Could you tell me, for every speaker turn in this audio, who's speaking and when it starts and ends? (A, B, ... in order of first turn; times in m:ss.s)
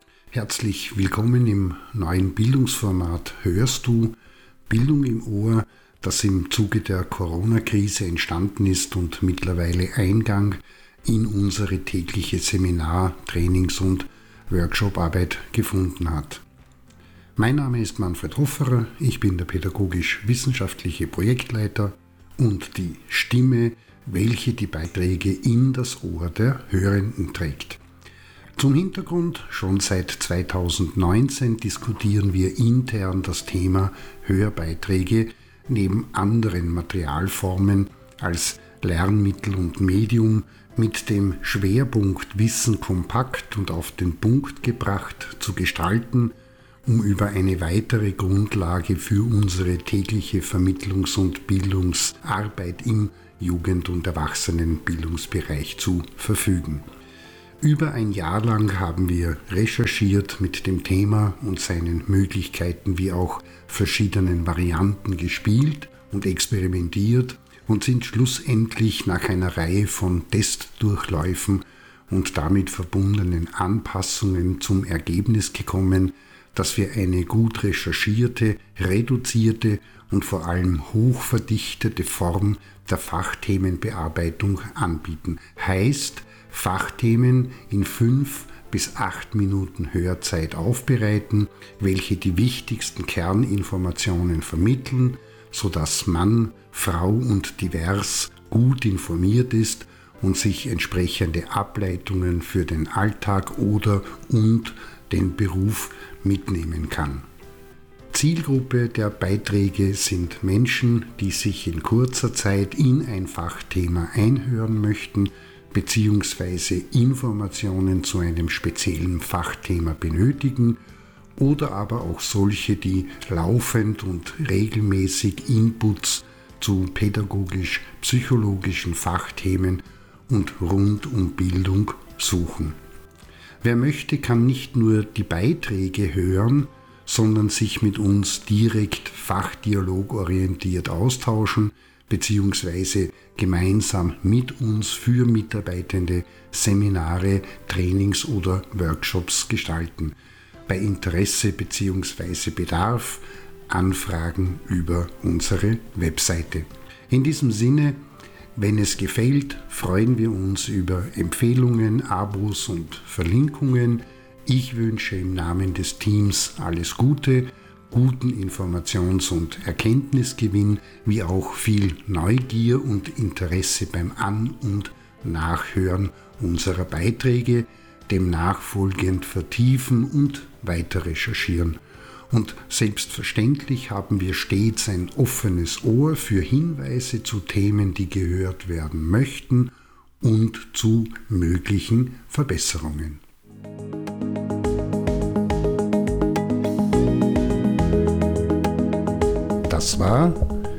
0:00.3-0:04.2 A
0:04.7-0:16.4 A
0:17.4-0:27.8 A
0:28.6-0:46.3 A
0:46.8-0:56.8 A
0:57.6-1:47.2 A
1:48.1-2:00.8 A
2:01.4-2:12.8 A
2:13.6-2:30.2 A
2:30.7-2:38.0 A
2:38.6-3:13.2 A
3:19.7-3:20.5 A